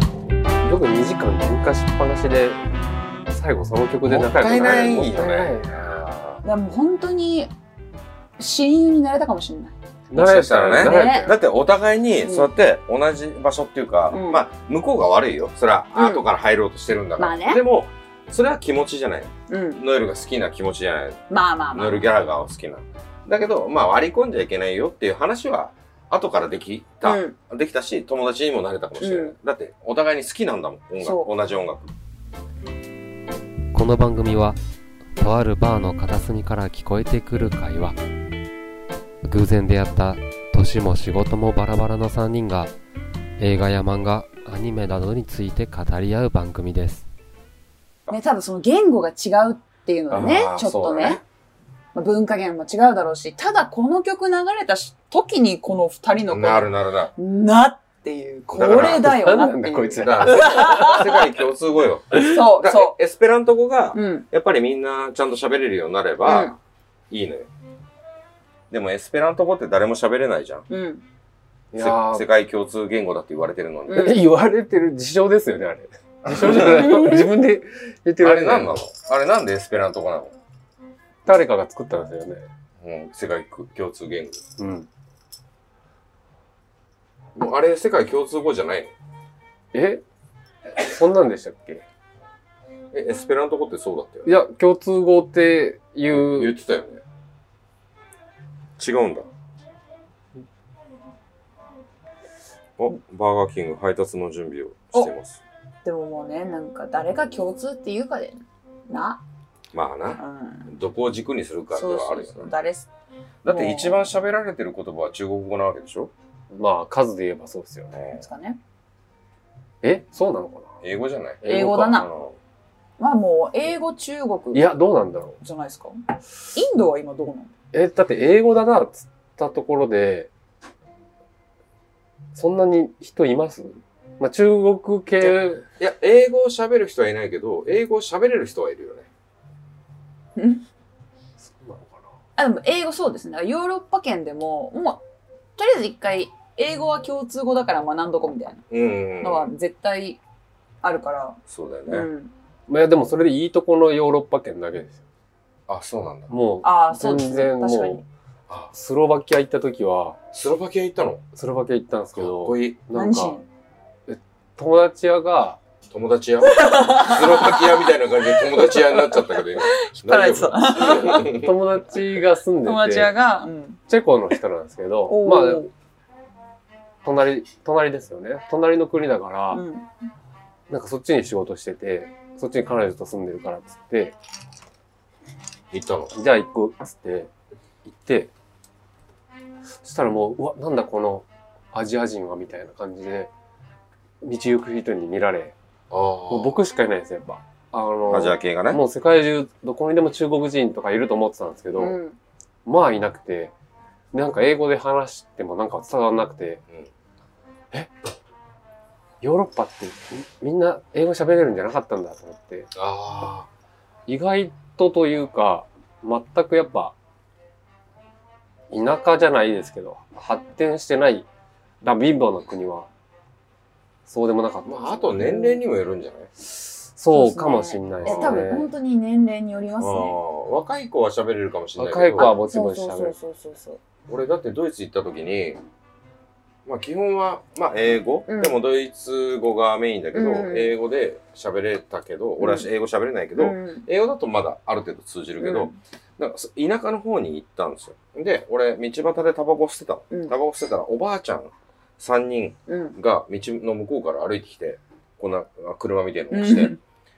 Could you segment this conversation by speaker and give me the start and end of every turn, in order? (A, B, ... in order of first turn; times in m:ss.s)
0:00.6-0:02.6 A
0:03.3-0:05.7 A
0:04.0-0:06.4 B
0:06.4-0:07.5 C
0:08.4-0:09.7 C
0:10.1-0:11.4 A
0:10.1-0:31.9 B
0:10.8-0:11.3 C
0:12.2-0:12.5 C
0:14.1-0:14.4 C
0:15.9-0:16.2 C
0:17.2-0:17.6 C
0:19.5-0:19.8 C
0:21.3-0:22.1 C
0:27.0-0:27.4 C
0:29.0-0:29.4 C
0:31.0-0:31.3 C
0:33.7-0:34.6 D
0:35.2-0:38.0 D
0:39.2-0:42.7 D
0:43.4-0:47.0 D
0:48.1-0:51.2 C
0:50.1-0:50.7 A
0:50.1-0:51.2 B
0:51.9-1:01.2 C
0:56.3-0:57.1 B
0:58.5-0:59.2 B
0:58.7-1:01.0 A
1:00.0-1:06.6 B
1:02.1-1:02.9 C
1:03.9-1:04.2 C
1:06.2-1:06.6 C
1:07.1-1:07.5 B
1:08.7-1:10.7 B
1:10.7-1:11.0 C
1:11.7-1:12.2 A
1:11.8-1:14.2 B
1:13.9-1:14.2 C
1:13.9-1:18.8 A
1:16.2-1:17.0 B
1:16.7-1:17.3 C
1:18.2-1:20.3 B
1:21.2-1:22.4 A
1:22.8-1:24.4 B
1:24.6-1:24.9 A
1:27.3-1:28.9 B
1:29.7-1:30.0 A
1:30.8-1:31.8 A
1:32.9-1:34.4 B
1:34.2-1:36.6 A
1:36.1-1:37.0 B
1:38.8-1:39.3 B
1:42.8-1:45.4 B
1:45.8-1:49.2 C
1:49.7-1:52.5 B
1:50.1-1:50.7 C
1:51.7-1:52.9 C
1:53.4-1:56.1 B
1:53.4-1:54.1 C
1:56.5-1:58.0 A
1:57.9-1:58.2 B
1:58.2-1:58.6 C
1:59.8-2:00.7 A
2:00.8-2:02.4 B
2:01.4-2:02.0 A
2:01.4-2:02.1 C
2:03.0-2:04.8 C
2:04.5-2:05.4 A
2:05.4-2:06.0 C
2:06.5-2:07.5 C
2:07.7-2:10.3 A
2:12.3-2:15.6 A
2:15.2-2:19.1 B
2:20.4-2:20.6 C
2:21.4-2:22.1 A
2:22.4-2:25.0 C
2:25.6-2:28.6 C
2:28.7-2:29.5 B
2:29.2-2:30.2 C
2:30.8-2:32.3 C
2:31.5-2:32.1 B
2:32.7-2:35.0 A
2:35.7-2:36.3 B
2:36.3-2:38.0 A
2:36.6-2:38.0 C
2:38.7-2:40.2 A
2:40.3-2:41.2 B
2:41.3-2:43.4 A
2:42.2-2:42.8 B
2:42.9-2:43.4 C
2:44.1-2:45.6 A
2:45.9-2:51.5 B
2:46.6-2:47.8 C
2:48.5-2:51.3 C
2:51.2-2:53.1 A
2:52.6-2:53.8 C
2:53.9-2:55.7 A
2:55.1-2:55.7 C
2:57.0-2:59.6 A
2:59.5-2:59.9 C
3:00.7-3:04.2 A
3:05.7-3:06.1 B
3:06.2-3:07.3 A
3:07.8-3:08.3 A
3:09.8-3:13.3 A
3:14.2-3:15.6 A
3:15.9-3:16.6 B
3:16.3-3:22.0 A
3:18.1-3:18.8 B
3:21.8-3:22.2 C
3:22.7-3:23.5 A
3:24.1-3:26.6 A
3:29.2-3:32.7 A
3:32.8-3:33.5 B
3:34.1-3:37.0 A
3:38.7-3:41.3 A
3:41.8-3:42.9 A
3:44.1-3:45.2 A
3:44.7-3:46.3 B
3:45.2-3:45.6 C
3:46.5-3:48.7 A
3:47.1-3:50.2 C
3:48.0-3:48.5 B
3:49.8-3:52.3 B
3:51.8-3:53.2 A
3:52.2-3:53.8 C
3:54.1-3:55.6 B
3:56.6-4:16.8 B
3:58.3-3:58.5 C
4:00.1-4:00.7 C
4:02.4-4:02.7 C
4:03.4-4:03.8 C
4:05.4-4:05.8 C
4:12.7-4:13.0 C
4:16.3-4:16.8 C